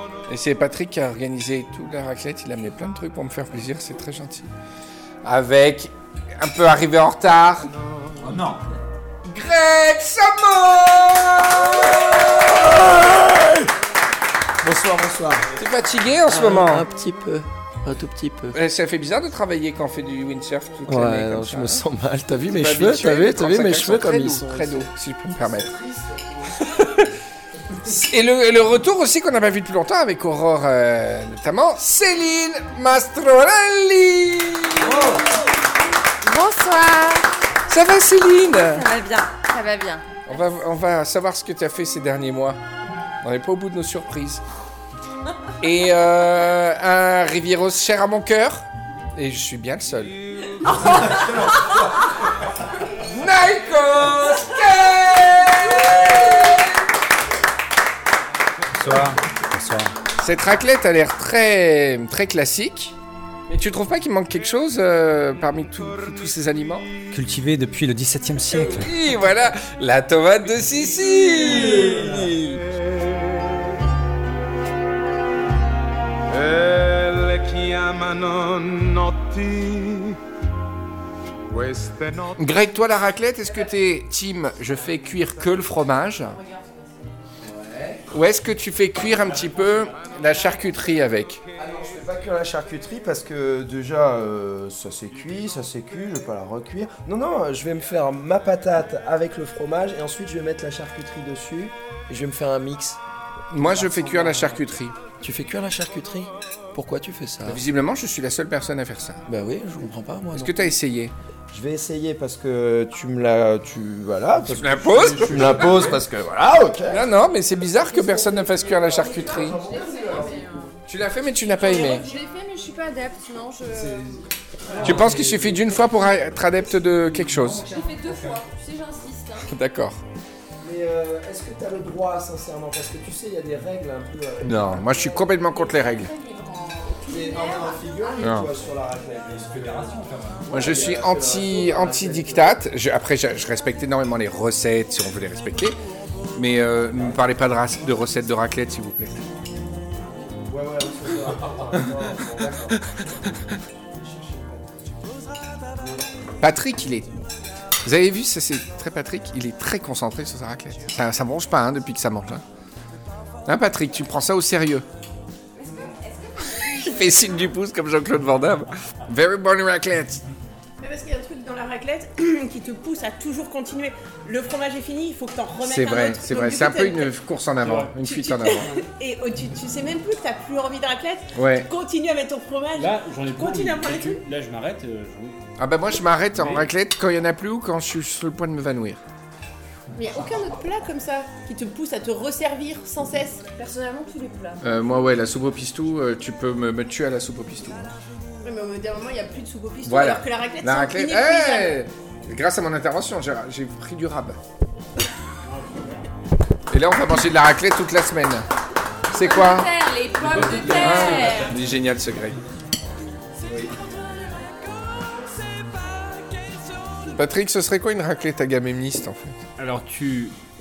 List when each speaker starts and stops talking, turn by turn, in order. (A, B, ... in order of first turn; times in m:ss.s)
0:00.3-0:04.5 A
0:05.2-0:07.7 A
0:07.8-0:08.4 B
0:08.2-0:08.6 C
0:09.2-0:13.0 A
0:12.4-0:13.7 B
0:14.6-0:15.5 B
0:15.6-0:16.9 A
0:16.3-0:18.6 B
0:18.5-0:21.8 A
0:20.9-0:26.8 B
0:22.5-0:25.8 A
0:26.7-0:27.1 A
0:27.8-0:35.2 A
0:34.8-0:35.4 B
0:36.2-0:37.3 D
0:37.7-0:38.8 A
0:38.5-0:40.5 D
0:40.3-0:42.6 A
0:43.2-0:44.4 A
0:45.6-0:51.1 A
0:50.9-0:51.7 E
0:51.1-0:51.9 B
0:53.0-0:56.7 A
0:58.7-0:59.9 C
1:00.2-1:02.9 A
1:03.5-1:06.9 A
1:07.1-1:08.9 C
1:08.5-1:12.7 A
1:22.3-1:26.4 A
1:26.3-1:27.1 D
1:27.4-1:28.0 B
1:28.1-1:31.4 A
1:29.1-1:30.0 F
1:31.6-1:43.0 B
1:43.5-1:45.0 A
1:43.6-1:44.6 B
1:45.2-1:47.6 B
1:47.4-1:49.2 A
1:49.2-1:50.7 B
1:50.3-1:51.1 A
1:51.5-1:57.1 B
1:54.5-1:55.7 A
1:55.3-1:56.0 C
1:56.9-1:59.6 A
1:57.9-2:00.5 B
1:58.1-1:58.4 D
1:58.9-2:00.7 D
2:00.9-2:02.0 A
2:01.6-2:04.0 D
2:01.6-2:02.2 E
2:03.6-2:05.8 B
2:04.7-2:05.8 C
2:04.8-2:07.6 A
2:06.8-2:08.4 C
2:07.6-2:09.5 D
2:09.4-2:10.0 A
2:10.6-2:15.2 B
2:14.4-2:16.1 A
2:15.0-2:18.5 D
2:17.0-2:22.6 B
2:18.2-2:18.5 A
2:19.3-2:20.7 C
2:20.5-2:25.8 A
2:26.3-2:29.2 A
2:26.9-2:27.2 C
2:30.1-2:35.0 B
2:32.8-2:33.1 A
2:35.8-2:36.1 B
2:36.4-2:37.1 A
2:37.8-2:42.4 A
2:43.4-2:44.8 A
2:45.5-2:47.4 D
2:46.8-2:50.2 A
2:50.8-2:57.1 E
2:55.6-2:58.7 A
2:57.6-2:57.9 F
2:58.0-3:04.2 E
3:01.3-3:01.7 A
3:02.8-3:05.4 F
3:05.6-3:09.0 A
3:06.3-3:06.7 F
3:10.0-3:10.4 C
3:10.0-3:14.6 E
3:14.6-3:17.9 A
3:18.4-3:21.8 E
3:19.8-3:24.4 A
3:25.4-3:26.0 F
3:26.7-3:28.5 A
3:29.1-3:31.5 D
3:29.1-3:29.7 A
3:30.2-3:31.5 F
3:30.4-3:30.8 C
3:30.5-3:32.4 A
3:33.4-3:33.7 B
3:37.1-3:39.4 A
3:39.6-3:40.3 F